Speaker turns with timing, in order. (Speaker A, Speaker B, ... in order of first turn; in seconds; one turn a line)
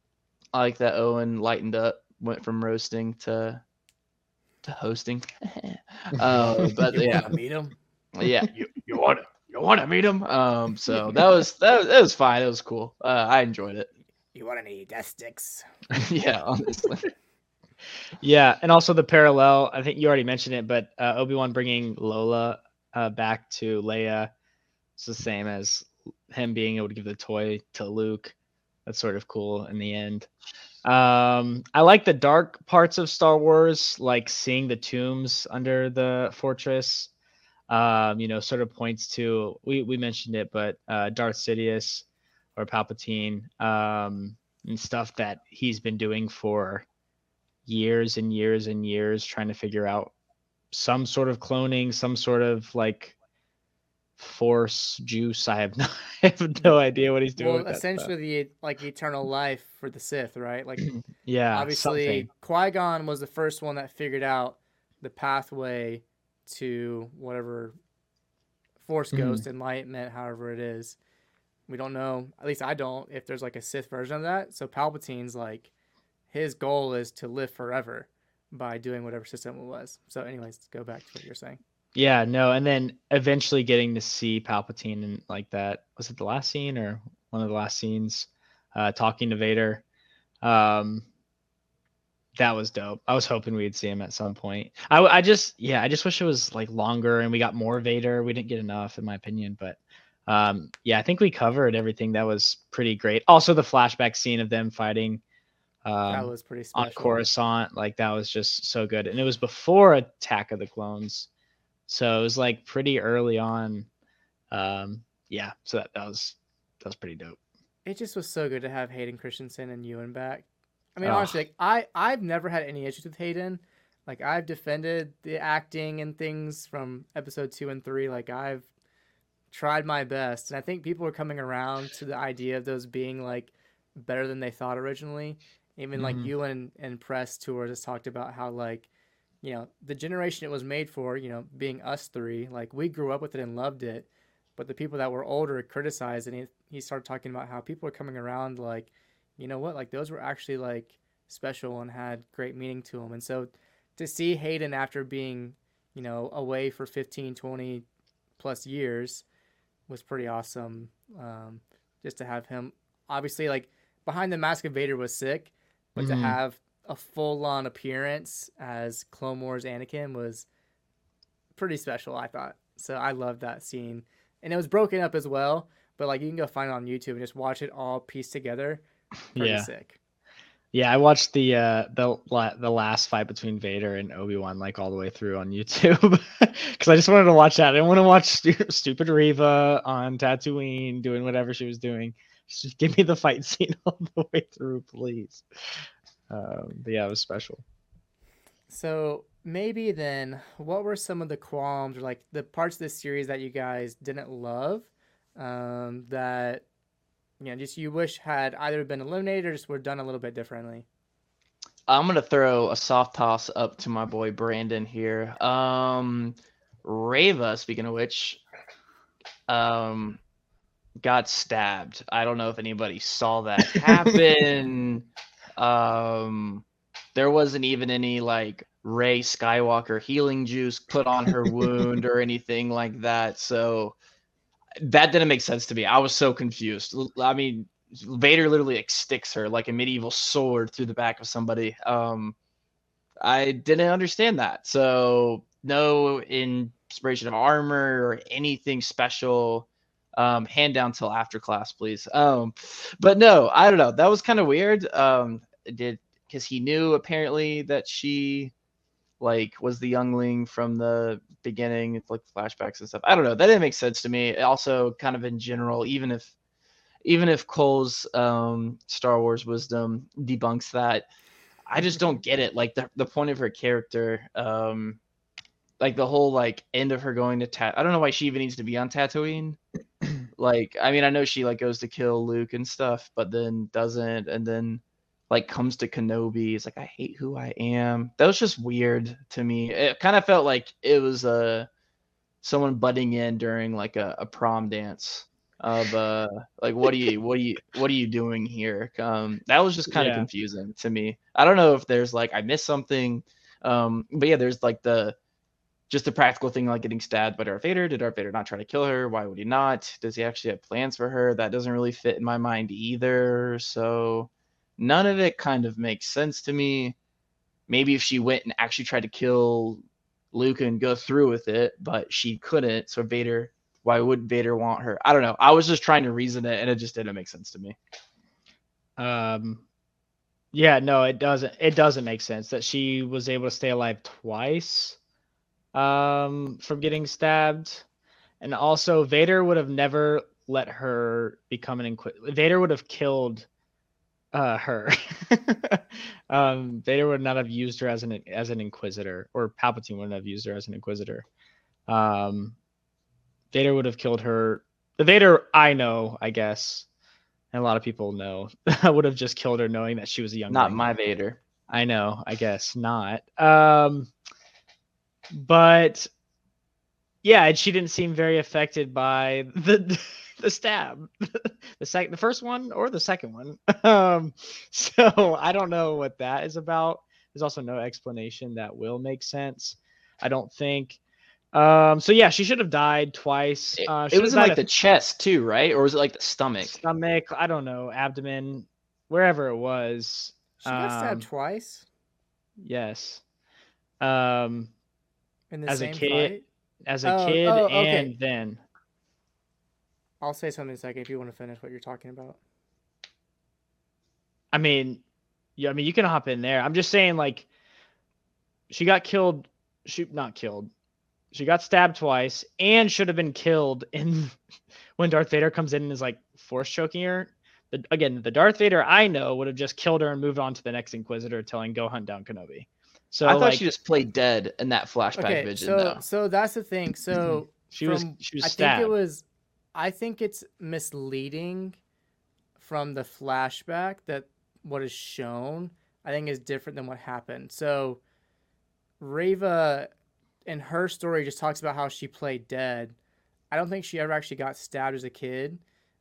Speaker A: 0.5-3.6
Speaker A: 4.6-7.4
Speaker B: 6.9-7.7
Speaker A: 8.2-13.9
Speaker B: 14.3-15.7
Speaker A: 15.9-17.1
Speaker C: 18.2-24.3
Speaker C: 25.0-28.4
Speaker C: 28.9-30.3
Speaker C: 30.8-37.1
Speaker C: 37.7-42.0
Speaker C: 42.6-46.9
Speaker C: 47.7-50.1
Speaker C: 50.7-53.1
Speaker C: 54.2-58.1
Speaker B: 57.4-60.9
Speaker C: 60.8-62.3
Speaker B: 61.5-67.8
Speaker B: 68.8-71.0
Speaker C: 69.1-69.5
Speaker B: 71.7-75.7
Speaker B: 76.3-81.6
Speaker C: 82.0-89.8
Speaker C: 90.4-91.0
Speaker C: 92.4-105.2
Speaker C: 105.8-111.3
Speaker B: 106.1-107.2
Speaker C: 111.9-113.9
Speaker C: 114.5-117.4
Speaker B: 117.8-128.7
Speaker C: 121.0-121.4
Speaker B: 129.5-138.9
Speaker C: 136.0-136.3
Speaker B: 139.4-157.8
Speaker B: 158.4-159.2
Speaker B: 159.9-170.5
Speaker C: 166.0-166.4
Speaker B: 171.6-178.8
Speaker C: 179.3-179.7
Speaker B: 179.3-180.0
Speaker C: 180.7-195.4
Speaker C: 196.3-197.6
Speaker B: 198.7-206.6
Speaker B: 207.4-210.9
Speaker A: 211.9-218.4
Speaker A: 219.5-220.2
Speaker A: 221.0-234.0
Speaker A: 234.8-242.4
Speaker A: 243.2-258.5
Speaker A: 259.2-266.3
Speaker A: 267.0-271.1
Speaker A: 271.7-275.0
Speaker A: 275.8-279.6
Speaker A: 280.4-291.7
Speaker A: 292.4-305.2
Speaker C: 299.9-300.3
Speaker A: 305.9-317.0
Speaker A: 317.7-327.8
Speaker C: 329.0-329.6
Speaker C: 330.5-335.0
Speaker C: 335.7-337.8
Speaker C: 338.4-343.5
Speaker C: 344.3-351.2
Speaker C: 351.9-352.6
Speaker C: 353.5-356.9
Speaker C: 357.5-360.9
Speaker A: 360.5-361.4
Speaker C: 361.7-364.1
Speaker C: 365.3-366.1
Speaker C: 367.2-381.0
Speaker C: 381.5-384.6
Speaker A: 383.8-386.8
Speaker C: 386.6-391.3
Speaker B: 390.6-391.9
Speaker C: 392.6-393.2
Speaker C: 394.0-394.7
Speaker B: 395.5-396.4
Speaker C: 395.7-398.6
Speaker B: 397.1-398.1
Speaker B: 400.2-402.4
Speaker C: 404.5-405.0
Speaker C: 405.6-407.5
Speaker C: 408.7-410.7
Speaker C: 411.3-414.4
Speaker C: 415.0-423.6
Speaker A: 423.2-426.0
Speaker B: 425.2-431.8
Speaker C: 427.2-428.9
Speaker B: 432.6-438.0
Speaker B: 439.0-439.9
Speaker B: 440.5-443.0
Speaker B: 443.5-445.6